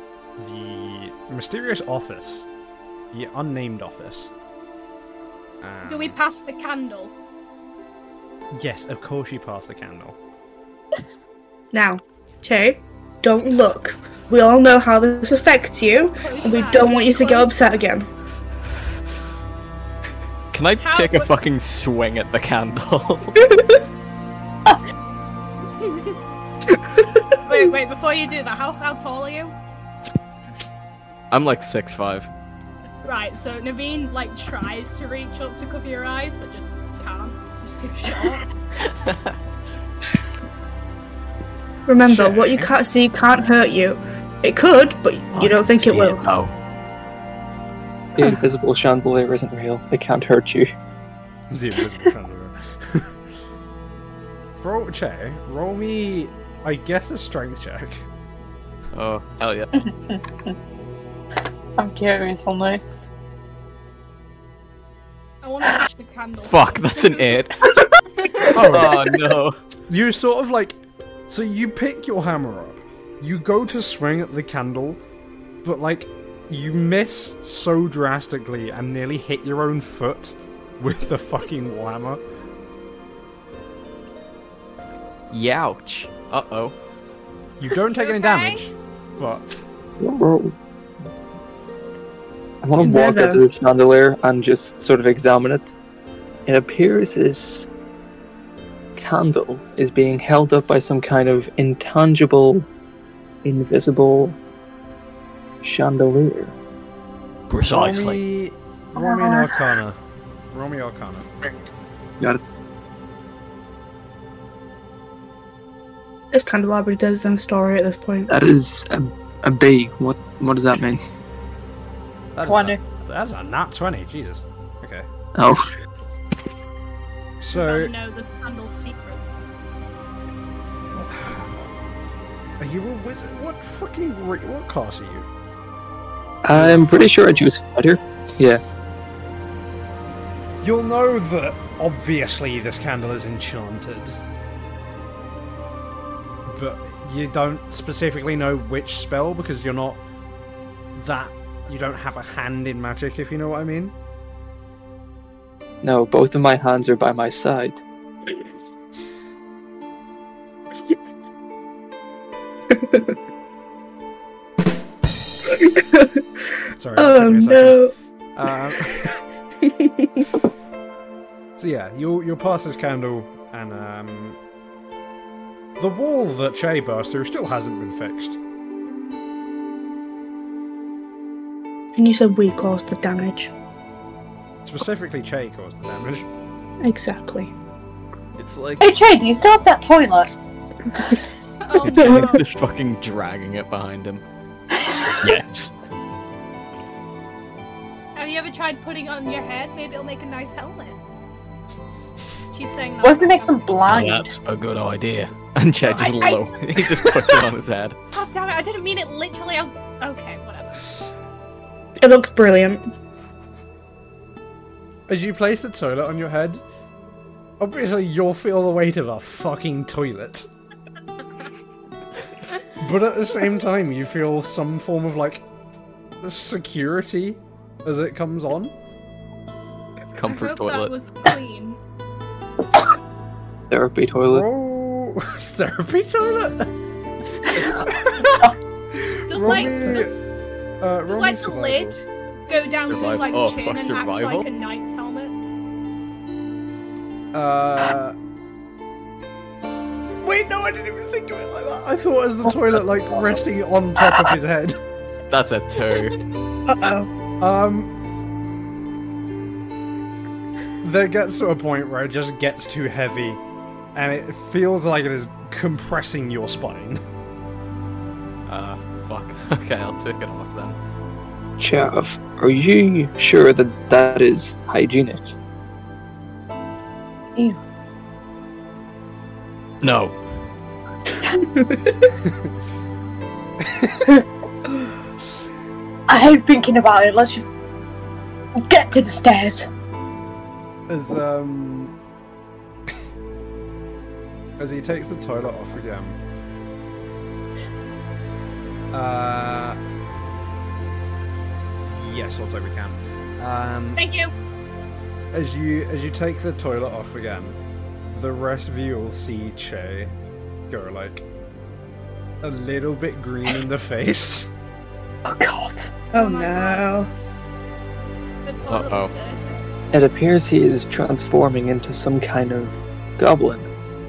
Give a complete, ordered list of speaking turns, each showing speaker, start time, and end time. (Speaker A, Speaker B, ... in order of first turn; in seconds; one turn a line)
Speaker A: 0.4-2.5
Speaker A: 3.1-4.3
Speaker A: 5.6-6.2
Speaker B: 5.9-7.1
Speaker A: 8.5-10.2
Speaker C: 11.7-18.1
Speaker B: 16.0-17.7
Speaker D: 20.5-23.4
Speaker B: 20.8-21.3
Speaker C: 23.5-23.8
Speaker B: 25.8-26.2
Speaker B: 27.3-29.5
Speaker D: 31.3-32.3
Speaker B: 33.0-38.5
Speaker D: 38.8-39.3
Speaker C: 41.9-46.2
Speaker A: 42.0-42.7
Speaker D: 45.3-46.5
Speaker E: 48.1-50.7
Speaker A: 51.5-53.1
Speaker A: 54.6-58.0
Speaker D: 58.9-59.7
Speaker F: 59.8-60.5
Speaker F: 61.8-63.1
Speaker B: 65.4-67.4
Speaker D: 66.5-67.8
Speaker B: 68.2-68.5
Speaker D: 68.4-69.6
Speaker A: 68.5-69.0
Speaker A: 69.9-75.0
Speaker A: 75.6-82.2
Speaker D: 85.3-86.7
Speaker A: 87.6-89.4
Speaker B: 87.9-88.6
Speaker E: 90.0-90.5
Speaker E: 92.6-95.7
Speaker C: 92.8-93.4
Speaker E: 96.5-97.7
Speaker E: 99.0-102.7
Speaker E: 103.4-104.4
Speaker E: 105.6-106.5
Speaker D: 107.5-108.2
Speaker A: 107.6-110.0
Speaker F: 109.0-109.5
Speaker A: 110.5-111.3
Speaker E: 112.2-112.5
Speaker C: 116.3-118.3
Speaker E: 118.3-121.0
Speaker A: 122.3-125.1
Speaker F: 122.4-122.8
Speaker E: 125.3-125.7
Speaker A: 127.4-127.9
Speaker B: 127.5-129.5
Speaker A: 131.1-131.7
Speaker A: 132.6-135.3
Speaker E: 136.4-138.6
Speaker A: 136.5-137.5
Speaker A: 140.6-144.2
Speaker A: 146.4-150.0
Speaker A: 150.9-153.9
Speaker E: 155.8-157.8
Speaker C: 162.7-163.1
Speaker C: 165.5-166.2
Speaker A: 166.7-167.8
Speaker C: 167.0-167.9
Speaker A: 168.3-169.2
Speaker C: 169.6-170.3
Speaker A: 171.6-174.4
Speaker A: 175.8-178.4
Speaker C: 181.9-183.5
Speaker A: 184.6-186.3
Speaker C: 186.8-187.5
Speaker D: 188.4-188.9
Speaker F: 188.8-190.3
Speaker B: 191.7-192.4
Speaker D: 191.8-194.2
Speaker C: 191.9-192.4
Speaker F: 194.8-195.1
Speaker D: 195.2-195.7
Speaker B: 198.2-201.0
Speaker B: 202.5-203.7
Speaker F: 203.0-204.3
Speaker D: 203.8-207.9
Speaker B: 205.9-207.1
Speaker B: 208.1-210.9
Speaker C: 212.0-212.9
Speaker A: 215.1-216.6
Speaker A: 217.6-220.5
Speaker A: 222.8-225.4
Speaker A: 226.2-228.7
Speaker D: 230.1-230.9
Speaker B: 230.2-231.8
Speaker E: 233.7-234.4
Speaker A: 234.3-236.7
Speaker F: 237.6-238.5
Speaker A: 237.6-240.2
Speaker B: 239.3-240.2
Speaker A: 240.8-242.0
Speaker B: 241.1-245.3
Speaker D: 242.9-244.5
Speaker A: 247.3-248.1
Speaker A: 250.2-254.8
Speaker D: 255.3-256.2
Speaker C: 256.7-257.1
Speaker A: 257.4-257.9
Speaker A: 260.8-263.4
Speaker A: 263.9-267.0
Speaker D: 268.5-270.8
Speaker E: 271.6-275.3
Speaker D: 279.8-280.2
Speaker C: 281.4-282.1
Speaker A: 282.2-282.5
Speaker A: 283.6-284.1
Speaker F: 286.1-287.5
Speaker F: 288.6-289.6
Speaker A: 290.9-291.9
Speaker A: 294.6-296.2
Speaker A: 298.9-299.8
Speaker A: 301.9-304.0
Speaker B: 303.9-304.3
Speaker A: 305.3-307.6
Speaker A: 308.1-310.1
Speaker A: 310.7-311.2
Speaker A: 312.4-314.5
Speaker F: 315.2-315.9
Speaker B: 316.1-316.9
Speaker C: 316.1-317.1
Speaker B: 318.4-319.6
Speaker D: 318.7-319.1
Speaker E: 319.9-323.7